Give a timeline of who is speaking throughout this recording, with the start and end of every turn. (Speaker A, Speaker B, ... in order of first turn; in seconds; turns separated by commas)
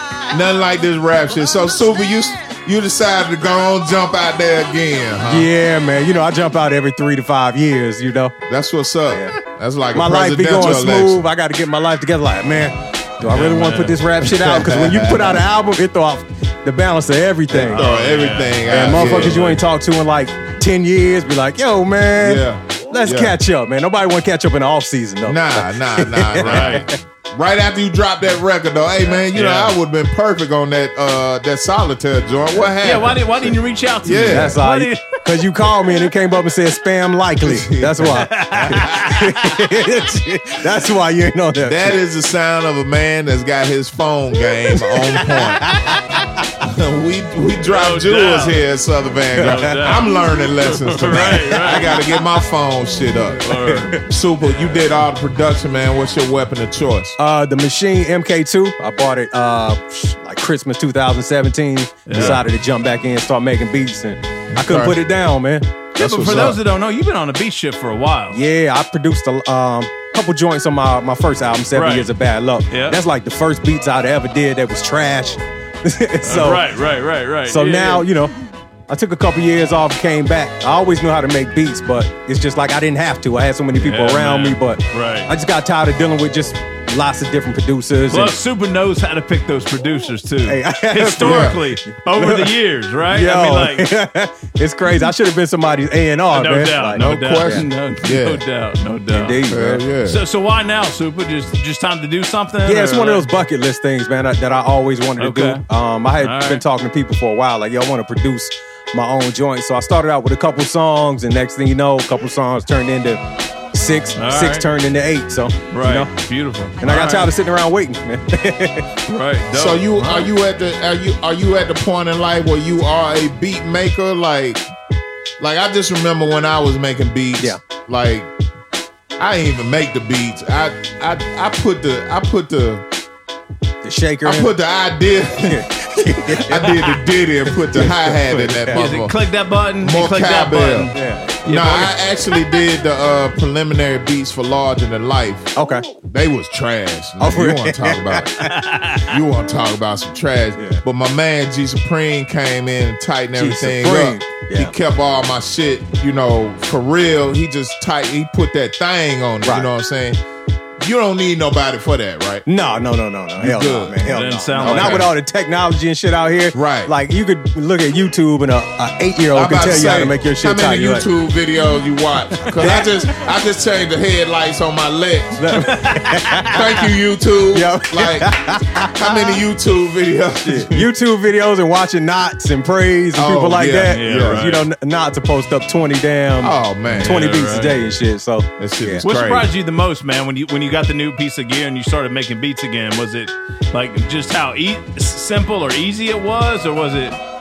Speaker A: 0.3-5.5, Speaker B: 5.3-8.3, Speaker A: 8.5-11.2, Speaker B: 9.9-17.8, Speaker C: 13.3-14.0, Speaker A: 14.2-15.4, Speaker A: 17.5-19.5, Speaker C: 17.7-19.6, Speaker B: 18.7-26.9, Speaker A: 22.2-23.3, Speaker A: 25.2-33.5, Speaker C: 26.4-26.8, Speaker C: 29.3-29.7, Speaker C: 32.8-35.2, Speaker A: 34.0-34.5, Speaker B: 34.3-41.9, Speaker A: 37.4-39.0, Speaker C: 38.1-39.3, Speaker A: 41.6-45.8, Speaker B: 44.7-46.0, Speaker A: 46.6-57.1, Speaker C: 47.7-48.6, Speaker C: 49.4-50.1, Speaker C: 50.6-51.9, Speaker B: 51.1-52.0, Speaker C: 53.4-53.9, Speaker C: 54.4-54.7, Speaker B: 57.2-65.7, Speaker C: 62.1-62.4, Speaker A: 62.1-62.4, Speaker A: 64.6-65.0, Speaker C: 66.0-68.4, Speaker A: 66.0-66.5, Speaker B: 68.3-76.6, Speaker C: 71.7-72.1, Speaker C: 72.7-73.0, Speaker C: 76.2-78.0, Speaker B: 77.5-78.3, Speaker B: 78.9-88.3, Speaker C: 83.7-85.3, Speaker C: 88.1-93.8, Speaker B: 90.5-92.5, Speaker A: 91.2-91.6, Speaker B: 93.1-97.6, Speaker C: 96.3-99.4, Speaker A: 97.0-98.4, Speaker B: 99.1-99.8, Speaker A: 99.5-100.2, Speaker C: 100.1-103.3, Speaker B: 102.6-113.2, Speaker C: 105.2-105.6, Speaker C: 106.2-106.6, Speaker B: 113.7-116.1, Speaker C: 114.2-114.6, Speaker C: 115.7-117.3, Speaker B: 116.8-118.8, Speaker C: 119.1-120.3, Speaker A: 119.5-124.6, Speaker A: 125.4-128.3, Speaker A: 129.2-132.8, Speaker B: 133.8-134.5, Speaker A: 134.2-135.6, Speaker B: 135.5-136.8, Speaker A: 136.4-139.1, Speaker B: 137.5-138.8, Speaker C: 138.7-140.9, Speaker A: 139.8-140.9, Speaker B: 140.9-141.4, Speaker C: 141.4-141.9, Speaker A: 141.5-148.3, Speaker B: 145.6-145.8, Speaker B: 147.2-148.2, Speaker C: 148.4-149.1, Speaker A: 149.1-160.2, Speaker B: 153.4-154.7, Speaker A: 160.8-162.4, Speaker B: 162.4-171.0, Speaker A: 163.4-164.0, Speaker C: 164.0-165.1, Speaker A: 164.5-165.1, Speaker A: 166.5-166.9, Speaker A: 169.3-175.4, Speaker B: 172.5-172.9, Speaker B: 175.4-176.5, Speaker C: 175.6-176.6, Speaker A: 176.5-178.3, Speaker B: 177.5-179.3, Speaker A: 179.0-180.8, Speaker B: 180.4-189.0, Speaker A: 183.2-184.5, Speaker C: 183.8-184.6, Speaker A: 186.4-187.2, Speaker C: 187.0-187.7, Speaker A: 188.6-189.5, Speaker C: 189.0-197.2